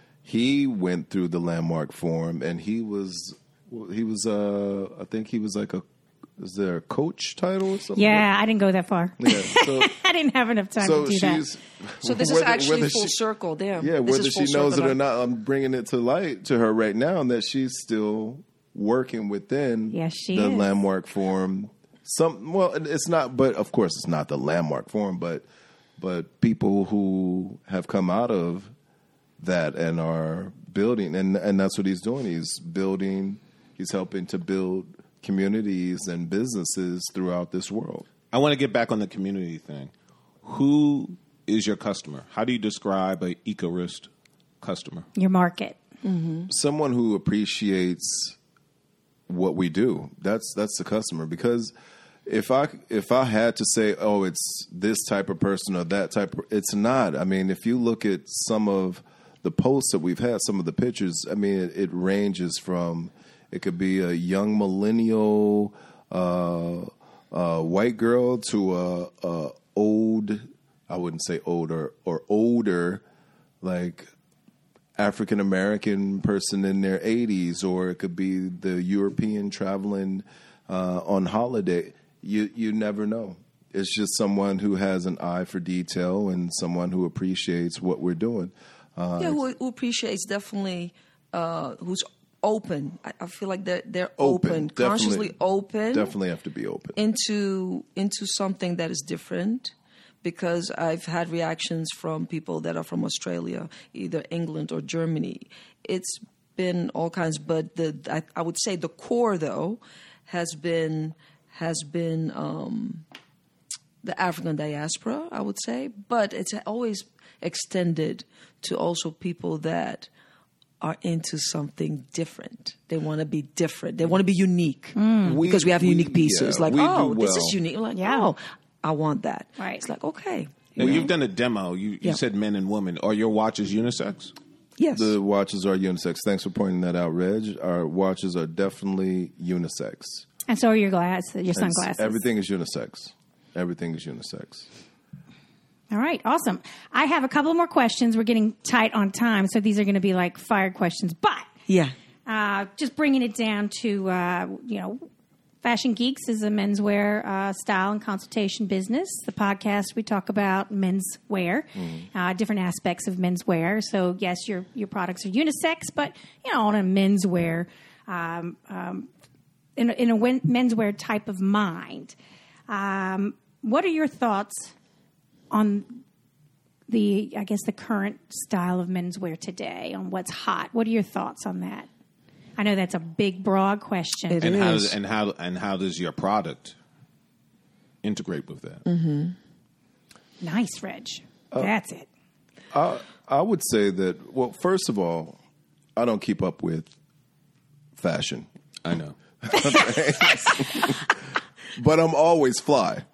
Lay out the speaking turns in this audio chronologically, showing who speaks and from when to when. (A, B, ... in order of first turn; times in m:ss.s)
0:00.2-0:05.8 A
0:06.4-0:08.2 A
0:08.0-0:11.4 B
0:09.2-0:09.9 A
0:10.8-0:13.2 A
0:12.0-0:15.0 C
0:13.8-0:25.4 A
0:19.9-0:20.7 B
0:26.0-0:28.7 A
0:29.4-0:38.1 A
0:38.3-0:39.9 D
0:40.4-0:44.1 D
0:44.6-0:45.1 D
0:45.2-0:45.8 B
0:46.0-0:46.5 C
0:46.5-0:48.4 A
0:49.3-0:51.7 A
0:52.3-1:13.0 A
1:13.6-1:14.1 A
1:15.0-1:29.4 A
1:29.2-1:36.1 C
1:34.2-1:35.3 A
1:35.9-1:37.0 A
1:37.0-1:53.0 C
1:54.0-2:00.1 C
2:00.8-2:11.1 C
2:05.0-2:05.4 B
2:05.2-2:07.6 A
2:08.0-2:08.3 B
2:09.6-2:09.8 B
2:10.8-2:14.3 D
2:10.8-2:11.1 A
2:14.8-2:15.1 C
2:14.9-2:20.2 A
2:20.5-2:22.2 B
2:21.6-2:24.7 A
2:25.9-2:31.5 B
2:31.7-2:31.9 C
2:32.3-2:35.1 B
2:35.6-2:49.1 B
2:49.8-2:52.2 B
2:52.7-2:54.7 B
2:55.5-2:56.0 B
2:56.9-3:01.9 B
3:02.6-3:04.5 B
3:04.3-3:05.0 C
3:04.4-3:06.8 D
3:08.0-3:08.8 D
3:08.8-3:09.4 C
3:10.4-3:12.1 B
3:12.7-3:15.4 A
3:16.0-3:16.9 A
3:18.0-3:18.5 A
3:18.8-3:19.2 D
3:19.4-3:21.1 A
3:21.8-3:23.0 A